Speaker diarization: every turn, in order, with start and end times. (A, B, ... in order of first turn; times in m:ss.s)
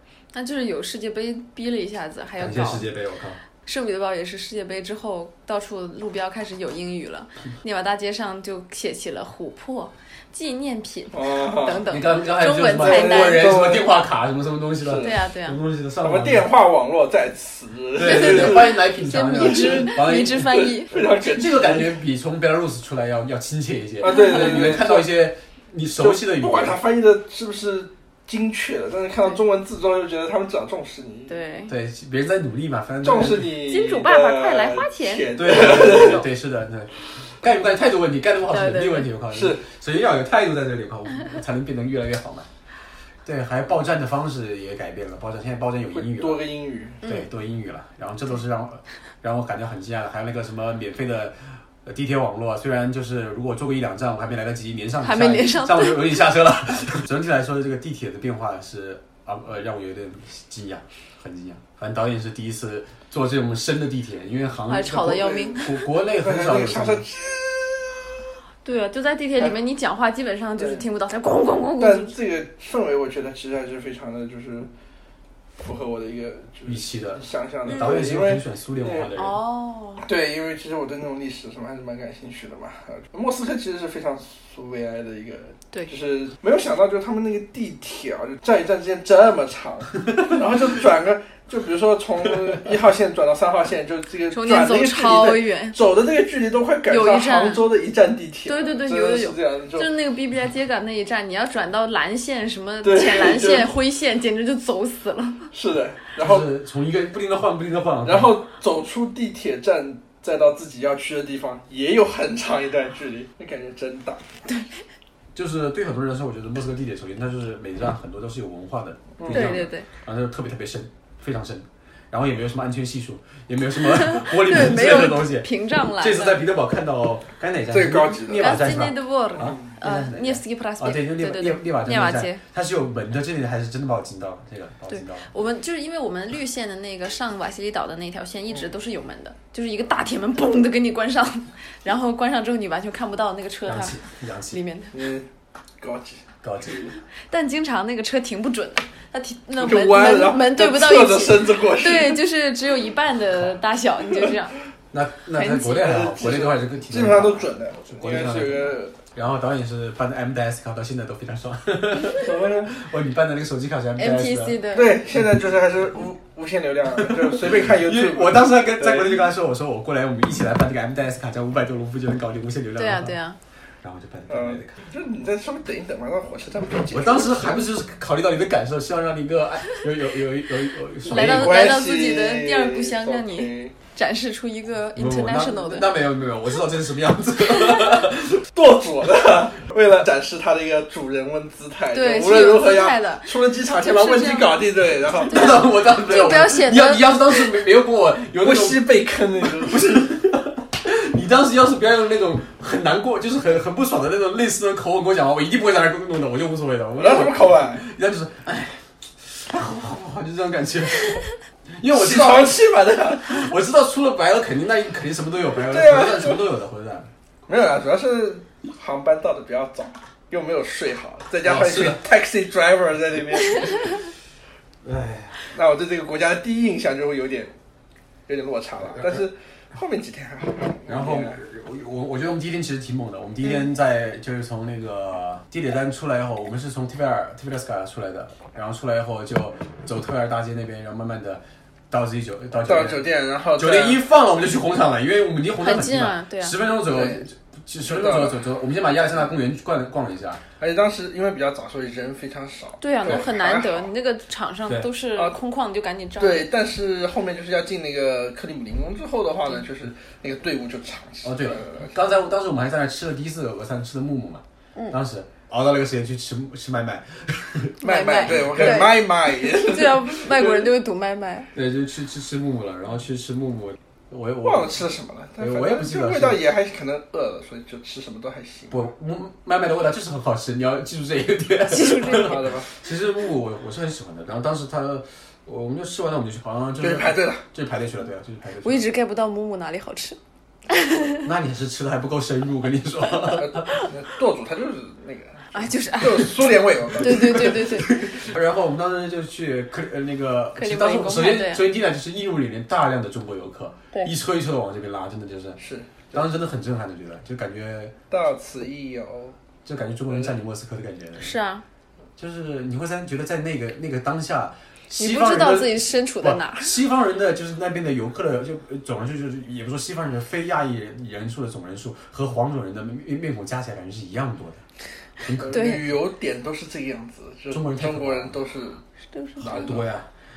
0:00.3-0:02.8 A
0:02.4-0:03.4 B
0:03.6-0:13.5 A
0:11.1-0:11.8 C
0:11.9-0:16.5 B
0:12.6-0:13.9 C
0:14.8-0:15.1 C
0:15.0-0:15.6 A
0:16.0-0:18.8 C
0:17.9-0:20.6 B
0:18.0-0:20.9 A
0:19.3-0:19.9 C
0:20.5-0:21.9 C
0:21.2-0:26.8 B
0:24.0-0:25.1 C
0:24.1-0:24.7 A
0:26.0-0:31.3 C
0:31.3-0:31.7 A
0:31.7-0:33.5 B
0:33.0-0:36.2 C
0:33.6-0:36.2 A
0:35.4-0:42.5 B
0:38.5-0:39.1 A
0:39.3-0:39.6 C
0:43.2-0:46.4 B
0:45.9-0:47.0 C
0:47.0-1:07.0 B
0:55.0-0:56.1 A
1:04.7-1:05.7 A
1:06.2-1:07.9 C
1:08.6-1:12.1 A
1:10.6-1:10.8 C
1:11.8-1:14.7 C
1:15.6-1:19.1 C
1:16.7-1:19.4 B
1:19.2-1:20.0 A
1:20.0-1:39.9 C
1:34.3-1:35.8 A
1:36.9-1:37.6 A
1:38.4-1:45.5 A
1:42.8-1:43.7 C
1:45.5-1:46.5 C
1:46.2-1:48.4 B
1:48.0-1:54.2 C
1:55.3-2:15.3 B
1:59.2-1:59.6 C
1:59.3-1:59.9 A
2:03.8-2:06.4 A
2:07.7-2:08.6 C
2:08.3-2:12.4 A
2:14.9-2:24.0 A
2:23.6-2:24.6 B
2:24.5-2:24.9 A
2:24.9-2:25.3 C
2:25.8-2:27.0 C
2:26.4-2:26.8 B
2:27.3-2:34.5 A
2:29.6-2:32.2 C
2:34.9-2:44.6 B
2:35.4-2:35.9 A
2:35.8-2:39.0 C
2:42.1-2:42.7 C
2:44.0-2:45.0 A
2:44.7-2:49.3 C
2:47.0-2:53.2 B
2:52.8-2:53.4 A
2:53.8-2:54.8 B
2:54.3-2:57.6 C
2:56.9-3:01.7 B
3:01.1-3:03.7 C
3:01.1-3:05.9 A
3:05.0-3:08.4 B
3:08.5-3:15.6 C
3:11.9-3:14.6 A
3:15.2-3:18.9 B
3:15.3-3:17.5 A
3:18.4-3:20.1 C
3:19.4-3:32.6 B
3:27.0-3:27.8 C
3:31.9-3:33.5 C
3:33.2-3:37.1 B
3:35.6-3:36.4 C
3:37.5-3:44.0 C
3:41.4-3:42.0 B
3:44.8-3:45.4 B
3:45.5-3:47.5 C
3:48.3-3:51.4 C
3:50.9-4:10.4 B
4:02.6-4:04.0 C
4:05.6-4:06.6 A
4:06.9-4:07.2 C
4:07.8-4:08.4 C
4:10.6-4:13.9 C
4:12.8-4:16.5 A
4:16.2-4:21.9 C
4:21.2-4:27.7 B
4:27.8-4:31.5 A
4:27.8-4:30.7 C
4:28.2-4:28.9 B
4:31.5-4:34.8 B
4:34.4-4:38.8 C
4:35.4-4:36.4 B
4:38.7-4:48.9 B
4:41.7-4:42.4 A
4:41.8-4:42.7 C
4:46.8-4:47.4 C
4:48.6-4:50.2 A
4:50.7-4:51.2 A
4:51.2-4:53.7 B
4:53.2-4:57.4 C
4:55.5-4:58.0 A
4:56.9-5:05.6 B
5:00.6-5:01.6 A
5:05.6-5:06.2 C
5:06.1-5:07.9 B
5:08.1-5:09.3 C
5:09.6-5:11.3 B
5:11.2-5:11.6 A
5:12.2-5:24.6 B
5:14.9-5:16.7 A
5:25.2-5:25.8 B
5:25.4-5:28.8 C
5:25.5-5:25.8 A
5:27.5-5:28.4 B
5:29.1-5:29.5 A
5:29.4-5:29.8 C
5:29.4-5:30.1 B